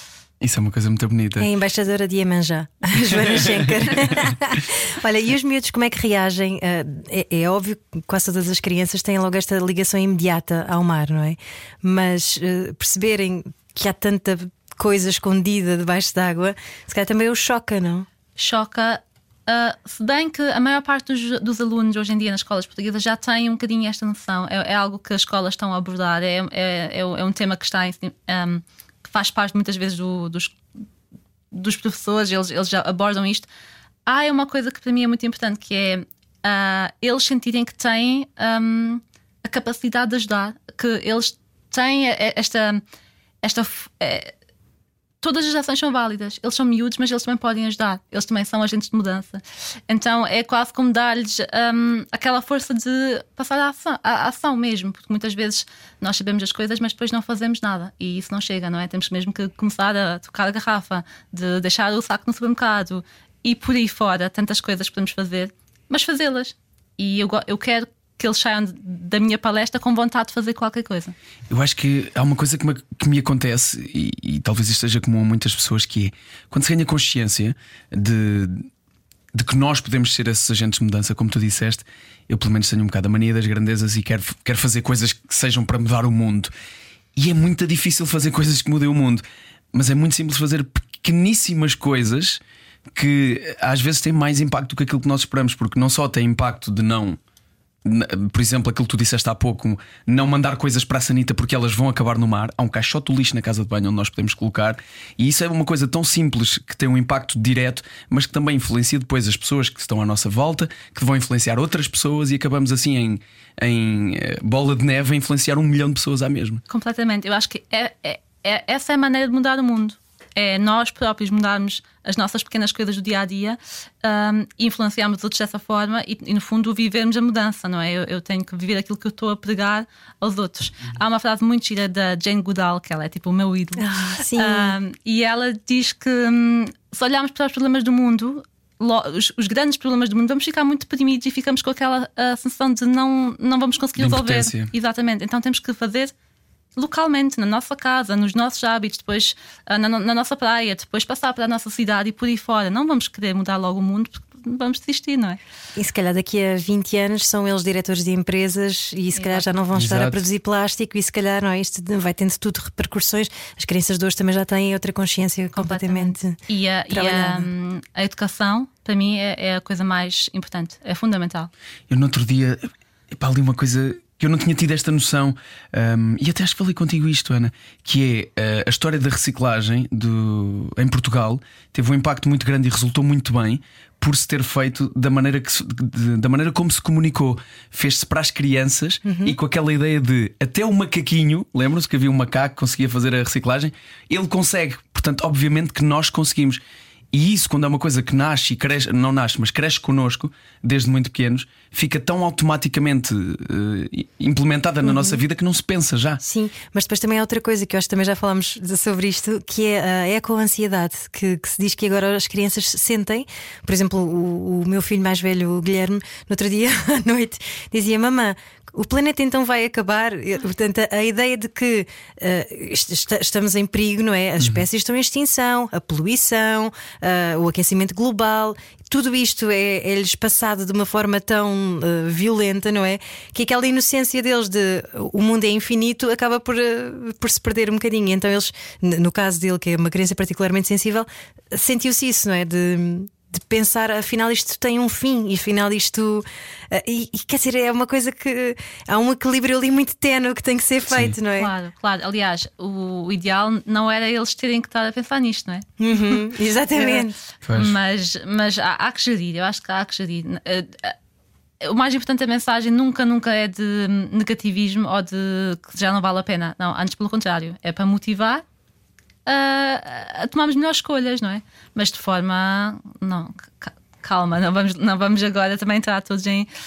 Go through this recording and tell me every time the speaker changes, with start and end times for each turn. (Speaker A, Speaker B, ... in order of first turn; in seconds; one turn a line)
Speaker A: 0.4-1.5
Speaker B: 1.4-18.1
Speaker A: 3.1-4.2
Speaker C: 18.4-30.6
Speaker C: 31.5-33.5
Speaker C: 34.1-42.8
Speaker C: 43.4-44.3
Speaker C: 45.2-71.2
Speaker A: 71.5-78.7
Speaker A: 79.3-86.5
Speaker A: 87.2-92.4
Speaker A: 92.9-97.2
Speaker A: 97.8-116.6
Speaker C: 116.7-146.1
Speaker B: 133.8-134.8
Speaker A: 144.0-144.7
Speaker C: 146.8-155.4
Speaker B: 155.8-166.4
Speaker C: 159.1-159.4
Speaker A: 159.7-160.2
Speaker C: 165.6-171.5
Speaker B: 166.9-167.5
Speaker A: 171.9-196.6
Speaker B: 189.1-189.4
Speaker A: 197.1-206.2
Speaker B: 204.8-205.2
Speaker B: 206.2-251.5
Speaker C: 251.4-255.7
Speaker B: 255.8-257.2
Speaker C: 256.8-260.9
Speaker A: 257.4-257.8
Speaker C: 261.6-268.4
Speaker C: 269.3-276.5